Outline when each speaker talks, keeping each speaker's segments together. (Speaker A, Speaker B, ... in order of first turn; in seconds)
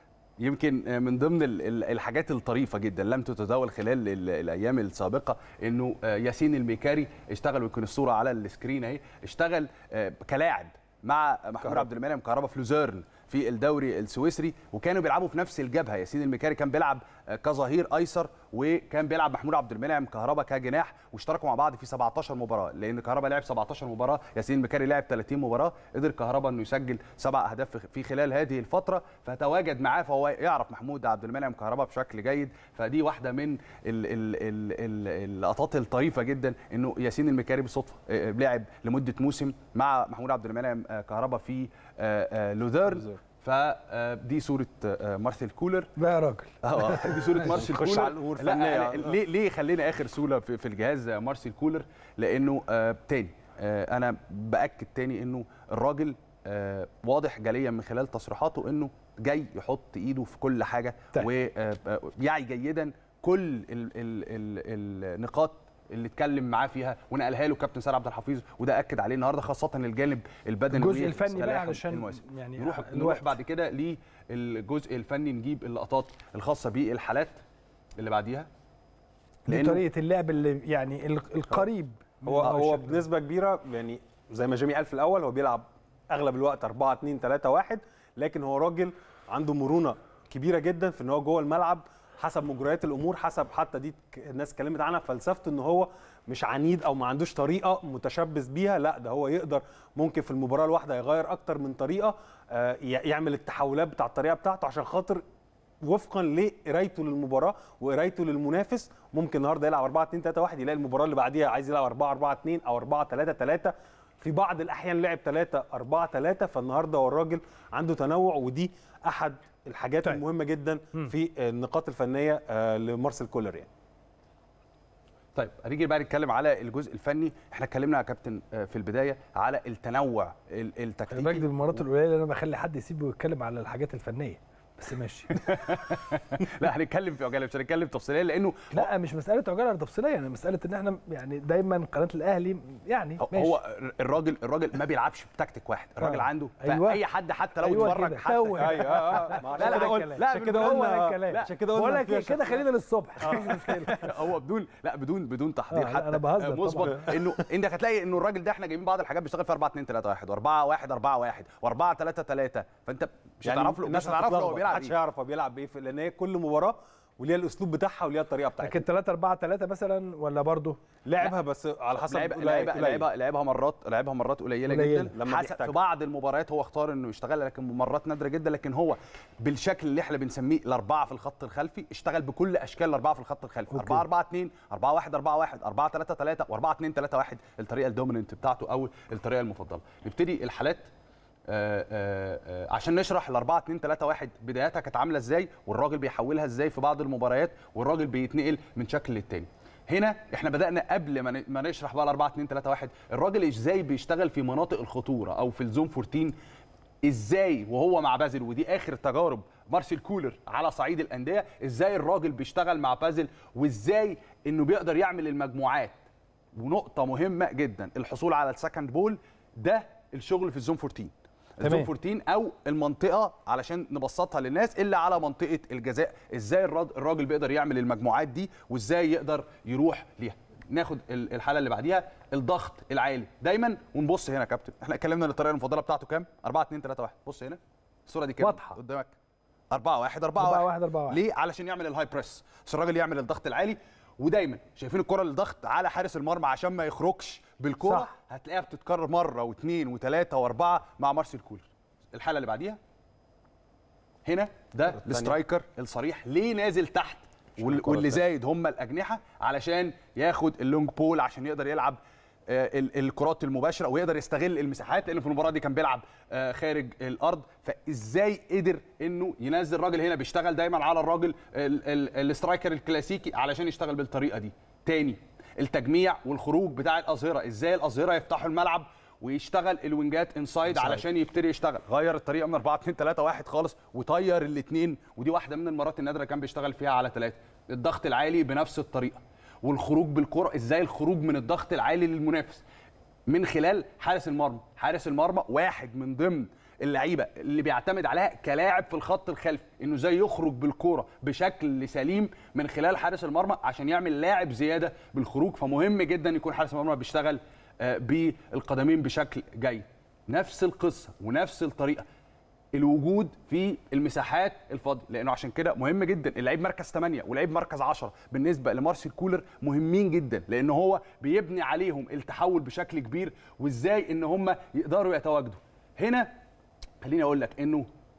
Speaker A: 0.4-45.9, 46.6-77.4, 78.0-78.5, 79.5-79.8, 125.3-131.8, 135.3-138.9, 143.2-151.5, 153.2-164.9, 171.9-190.9, 191.5-206.3, 207.0-216.0, 216.5-239.1, 239.7-252.8, 254.2-292.6, 293.3-312.1, 312.7-326.3, 327.0-327.9
Speaker B: 42.9-43.2, 47.4-49.2, 82.2-105.2, 105.8-123.7, 148.6-152.7, 153.2-154.1, 163.4-168.8, 171.0-173.1, 175.1-175.7, 255.0-255.4, 257.6-258.2
Speaker C: 46.0-47.4, 70.7-73.3, 79.5-83.0, 131.1-135.4, 138.7-143.6, 146.0-147.0, 147.6-154.0, 155.7-157.0, 168.6-170.8, 174.7-175.1, 183.7-184.0, 221.6-221.9, 238.4-238.8, 240.4-241.2, 247.8-248.1